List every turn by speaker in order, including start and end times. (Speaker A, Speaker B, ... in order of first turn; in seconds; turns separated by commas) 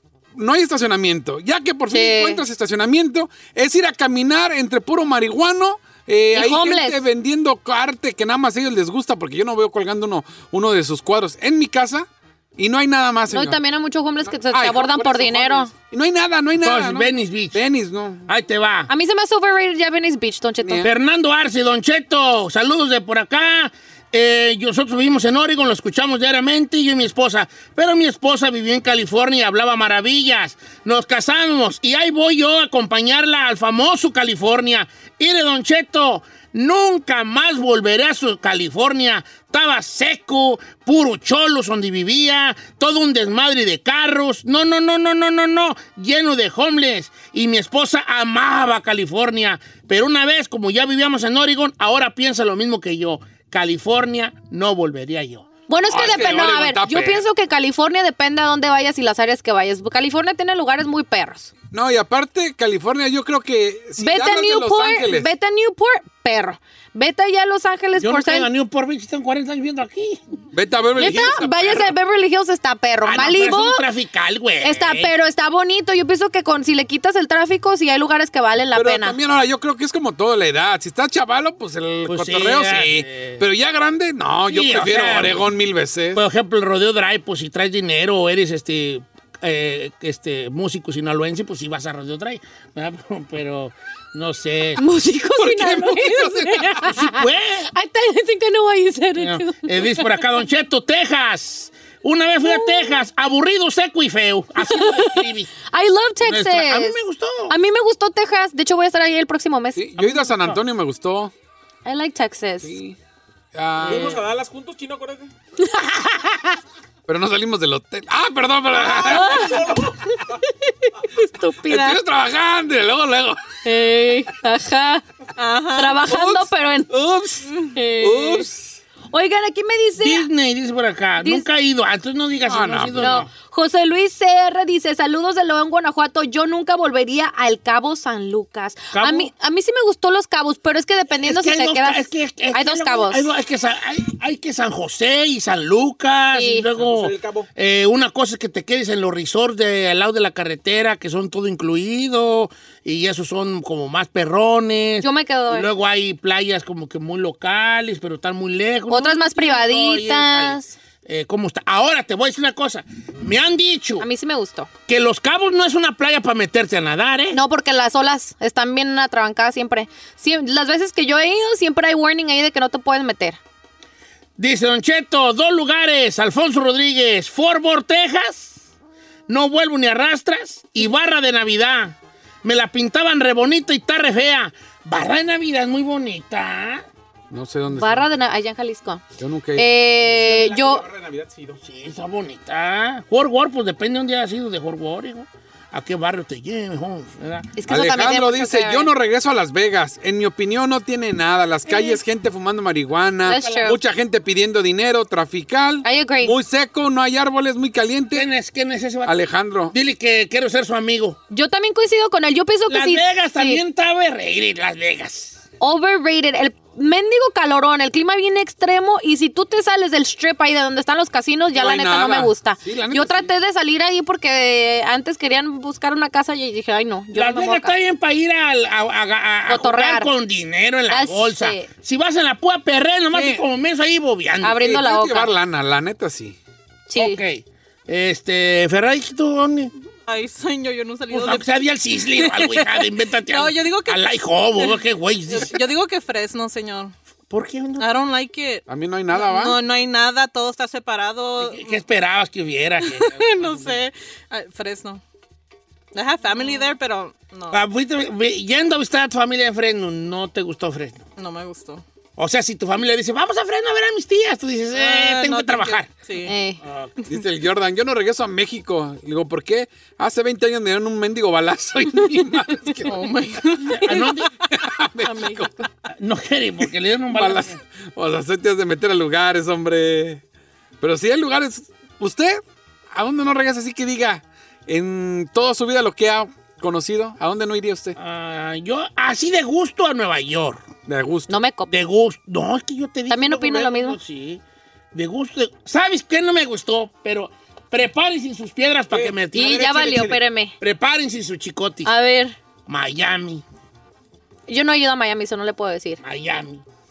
Speaker A: 0.3-13.6, Speaker B: 1.9-2.4, Speaker B: 6.3-7.0, Speaker B: 13.3-15.7, Speaker A: 14.3-18.2, Speaker C: 16.6-17.6, Speaker C: 18.3-18.9, Speaker B: 18.9-20.9, Speaker A: 20.6-20.9, Speaker C: 20.8-55.5, Speaker B: 55.7-61.5, Speaker A: 55.8-57.2, Speaker A: 61.7-65.3, Speaker B: 64.0-68.5, Speaker C: 68.0-70.2, Speaker A: 70.5-71.9, Speaker B: 71.0-73.8, Speaker C: 73.0-75.1, Speaker B: 74.6-79.2, Speaker A: 78.7-86.2, Speaker C: 82.1-83.4, Speaker C: 84.5-85.5, Speaker C: 86.1-94.8, Speaker B: 94.8-100.2, Speaker A: 95.4-96.8, Speaker C: 96.2-97.7, Speaker C: 99.2-105.5, Speaker B: 102.4-103.0, Speaker B: 104.6-107.0, Speaker C: 106.2-107.5, Speaker B: 107.5-109.8, Speaker A: 109.8-111.3, Speaker C: 110.0-110.6, Speaker B: 111.8-112.8, Speaker A: 112.6-113.0, Speaker A: 113.5-114.2, Speaker D: 113.8-115.3, Speaker B: 115.6-116.4, Speaker A: 117.1-119.5, Speaker D: 118.8-120.0, Speaker B: 119.0-119.8, Speaker B: 120.7-122.0, Speaker A: 121.7-123.4, Speaker B: 123.7-125.0, Speaker E: 125.4-126.0, Speaker B: 125.8-126.9, Speaker A: 126.1-127.5, Speaker B: 127.7-128.5, Speaker A: 128.0-128.8, Speaker B: 129.1-130.3, Speaker C: 130.0-133.3, Speaker A: 132.4-133.2, Speaker B: 133.0-143.3, Speaker C: 138.9-139.3, Speaker C: 141.2-164.1, Speaker B: 146.3-146.7, Speaker D: 146.8-147.5, Speaker B: 155.0-155.7, Speaker B: 158.9-160.7, Speaker B: 164.0-164.7, Speaker C: 164.9-167.4, Speaker B: 167.3-173.4, Speaker C: 174.4-178.6, Speaker C: 179.3-186.8, Speaker A: 187.3-188.1, Speaker B: 187.7-189.0, Speaker A: 189.2-189.7, Speaker B: 189.6-190.8, Speaker D: 190.0-191.6, Speaker C: 191.6-197.5, Speaker B: 197.6-198.9, Speaker A: 197.7-208.3, Speaker B: 201.7-202.0, Speaker B: 203.2-203.8, Speaker C: 203.3-203.8, Speaker B: 205.8-206.3, Speaker C: 208.1-211.2, Speaker A: 209.1-209.7, Speaker B: 211.3-213.6, Speaker C: 212.7-215.4, Speaker B: 215.6-227.8, Speaker A: 221.6-223.3, Speaker C: 227.1-234.6, Speaker B: 229.5-230.1, Speaker B: 230.9-231.7, Speaker A: 233.1-233.4, Speaker B: 234.4-235.3, Speaker A: 234.6-236.4, Speaker B: 236.9-237.2, Speaker C: 236.9-239.7, Speaker E: 240.1-241.5, Speaker C: 241.1-245.6, Speaker E: 242.1-244.1, Speaker E: 244.6-246.9, Speaker C: 247.3-247.9, Speaker E: 247.8-251.8, Speaker A: 248.7-249.6, Speaker C: 251.4-253.8, Speaker E: 252.8-255.0, Speaker E: 255.9-257.6, Speaker C: 257.5-261.1, Speaker E: 261.2-261.8, Speaker C: 262.2-265.9, Speaker E: 264.7-266.4, Speaker B: 266.2-266.6, Speaker C: 266.6-266.9, Speaker A: 267.1-273.0, Speaker E: 272.9-274.2, Speaker C: 273.8-274.3, Speaker A: 274.5-275.6, Speaker E: 275.0-275.7, Speaker C: 275.9-277.6, Speaker A: 277.1-280.2, Speaker A: 280.8-282.4, Speaker A: 282.9-288.0, Speaker C: 288.0-290.7, Speaker A: 290.9-291.3, Speaker B: 291.3-291.7, Speaker C: 291.7-294.4, Speaker B: 293.1-294.0, Speaker C: 294.9-301.9, Speaker D: 298.9-299.6, Speaker B: 299.3-300.6, Speaker B: 301.9-302.4, Speaker C: 302.7-303.4, Speaker B: 304.5-306.0, Speaker C: 306.0-306.6